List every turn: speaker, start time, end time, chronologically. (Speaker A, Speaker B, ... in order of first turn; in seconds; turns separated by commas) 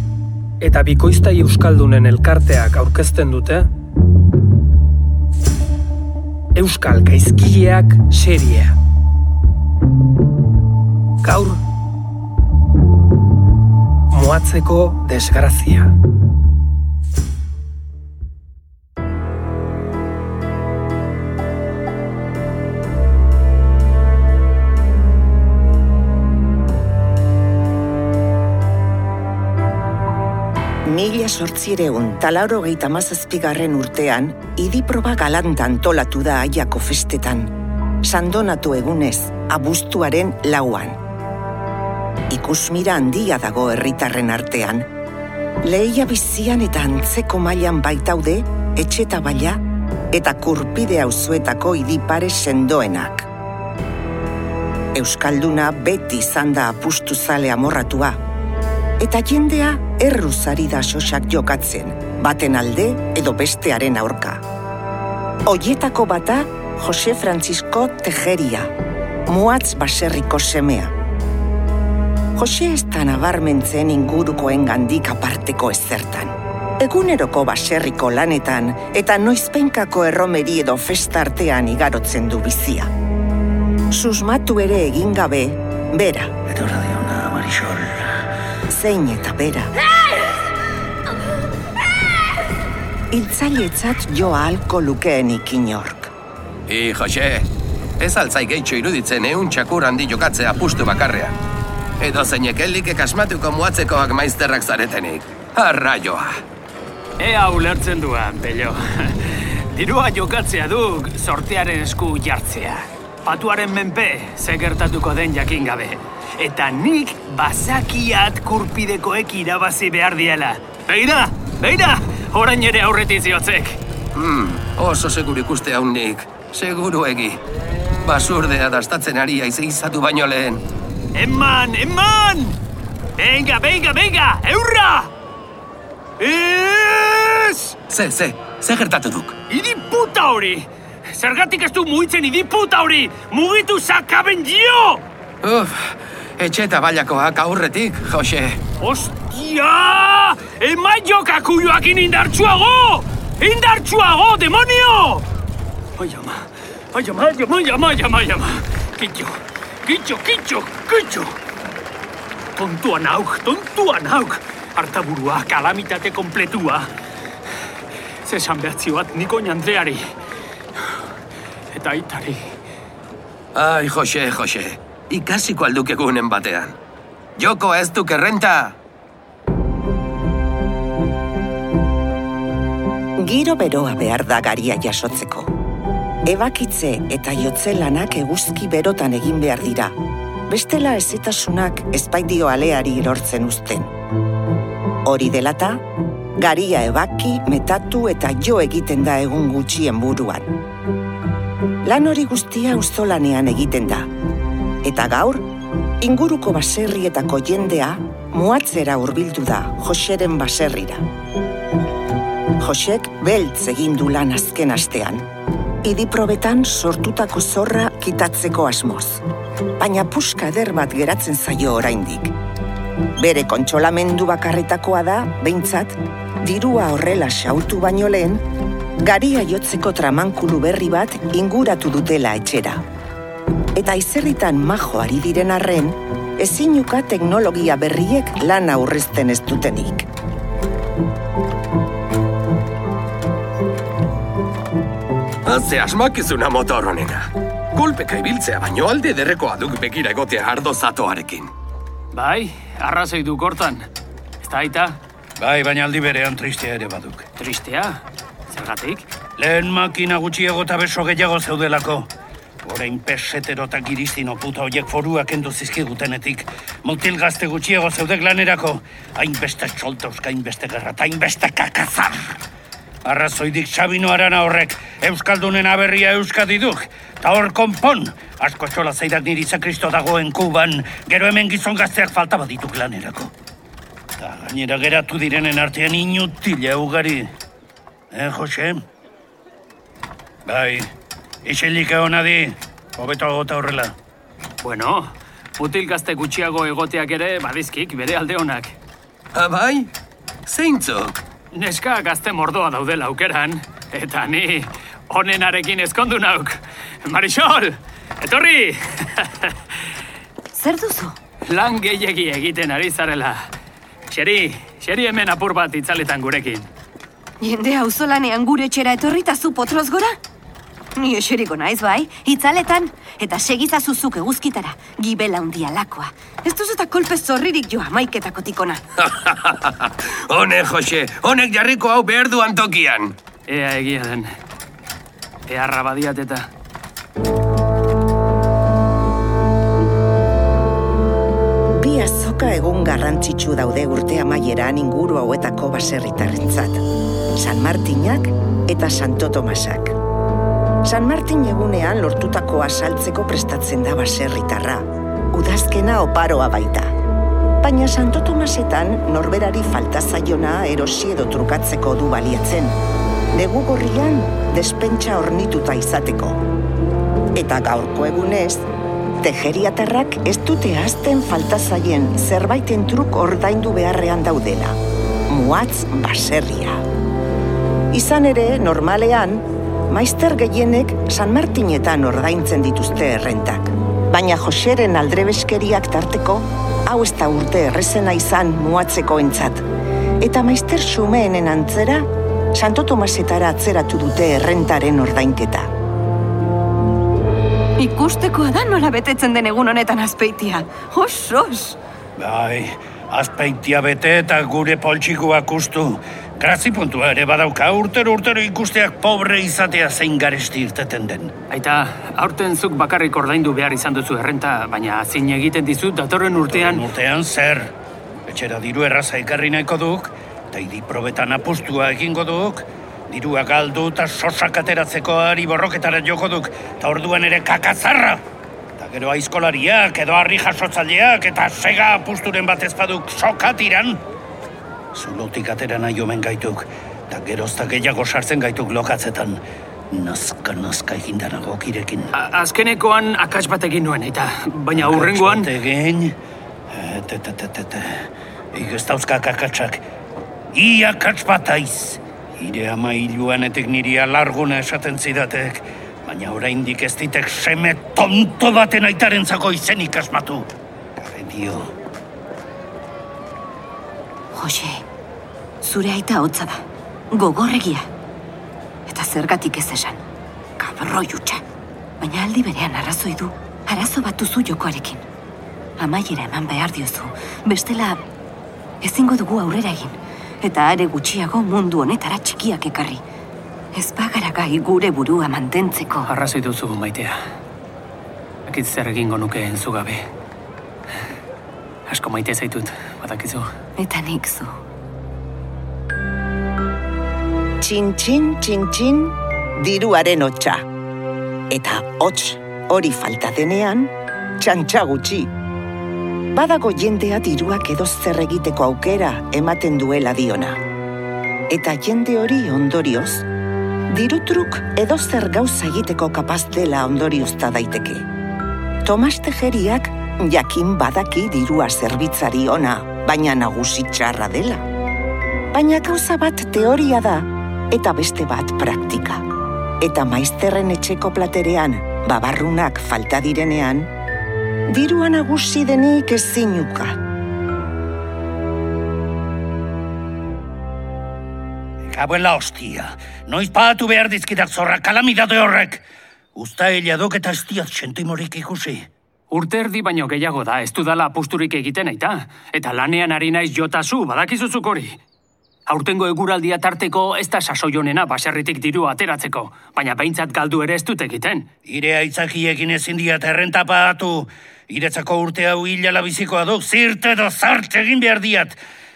Speaker A: 0.6-3.7, Speaker A: 6.5-8.8, Speaker A: 11.2-11.6, Speaker A: 14.1-15.9, Speaker B: 30.9-41.0, Speaker B: 42.3-44.9, Speaker B: 45.6-53.3, Speaker B: 54.9-58.2, Speaker B: 59.0-64.4, Speaker B: 65.5-68.7, Speaker B: 69.3-70.9, Speaker B: 72.4-82.9, Speaker B: 83.9-86.3, Speaker C: 86.5-88.0, Speaker B: 88.7-89.7, Speaker B: 93.1-96.1, Speaker D: 96.7-101.3, Speaker D: 102.0-106.4, Speaker E: 107.2-123.8, Speaker D: 124.2-127.4, Speaker D: 128.0-130.6, Speaker E: 131.2-132.6, Speaker E: 133.2-135.1, Speaker E: 136.2-137.8, Speaker D: 137.9-139.4, Speaker E: 139.5-145.0, Speaker D: 145.4-148.6, Speaker E: 148.8-155.3, Speaker E: 156.0-161.4, Speaker E: 162.6-166.9, Speaker E: 168.2-170.1, Speaker E: 171.7-172.5, Speaker D: 173.6-176.8, Speaker D: 177.4-178.8, Speaker B: 183.2-185.5, Speaker B: 186.2-189.9, Speaker B: 190.5-193.9, Speaker B: 195.1-195.8, Speaker B: 196.4-200.5, Speaker B: 201.8-204.1, Speaker B: 204.8-205.5, Speaker B: 206.0-211.1, Speaker B: 212.6-215.3, Speaker B: 215.8-219.2, Speaker B: 219.8-222.3, Speaker B: 223.2-228.4, Speaker B: 229.0-232.8, Speaker B: 233.8-240.1, Speaker D: 245.4-251.5, Speaker E: 252.1-253.9, Speaker E: 254.4-255.0, Speaker C: 255.4-257.3, Speaker E: 257.4-259.1, Speaker C: 259.4-262.1, Speaker C: 262.6-272.4, Speaker C: 273.0-283.3, Speaker C: 284.2-287.3, Speaker C: 288.1-288.8, Speaker C: 290.4-290.9, Speaker C: 291.4-293.9, Speaker E: 294.6-298.8, Speaker D: 299.4-299.9, Speaker D: 300.5-301.2, Speaker E: 301.5-309.8, Speaker F: 310.5-311.2, Speaker E: 311.5-313.5, Speaker E: 314.1-316.7, Speaker F: 317.4-320.2, Speaker F: 321.0-328.8, Speaker D: 329.0-333.2, Speaker E: 333.5-334.3, Speaker E: 335.5-336.5, Speaker B: 341.8-346.9, Speaker B: 347.4-350.0, Speaker B: 350.8-356.9, Speaker B: 357.6-362.8, Speaker B: 363.3-366.4, Speaker B: 367.3-368.7, Speaker B: 369.2-374.8, Speaker B: 375.3-376.8, Speaker B: 377.9-389.7, Speaker B: 390.2-395.7, Speaker F: 397.8-401.8, Speaker C: 402.2-411.3, Speaker E: 411.5-416.9, Speaker C: 416.5-417.7, Speaker C: 418.3-428.2, Speaker C: 428.8-434.0, Speaker C: 434.9-442.1, Speaker E: 442.1-445.5, Speaker C: 444.7-446.2, Speaker C: 446.7-449.8, Speaker C: 450.5-461.7, Speaker F: 464.3-464.8, Speaker F: 465.6-467.9, Speaker F: 468.9-470.0, Speaker F: 470.6-471.4, Speaker F: 472.0-475.0, Speaker F: 475.8-478.0, Speaker F: 478.8-483.0, Speaker F: 483.8-486.1, Speaker E: 486.1-487.2, Speaker E: 488.5-490.1, Speaker E: 491.9-493.5, Speaker F: 493.8-494.6, Speaker B: 497.6-500.7, Speaker B: 501.5-505.3, Speaker B: 506.4-510.6, Speaker B: 511.5-513.3, Speaker B: 513.9-518.0, Speaker B: 518.8-524.6, Speaker B: 525.5-529.2, Speaker B: 529.8-533.9, Speaker B: 534.7-537.0, Speaker C: 541.8-545.8, Speaker C: 546.4-548.9, Speaker E: 549.3-555.0, Speaker E: 555.7-561.5, Speaker C: 561.7-568.6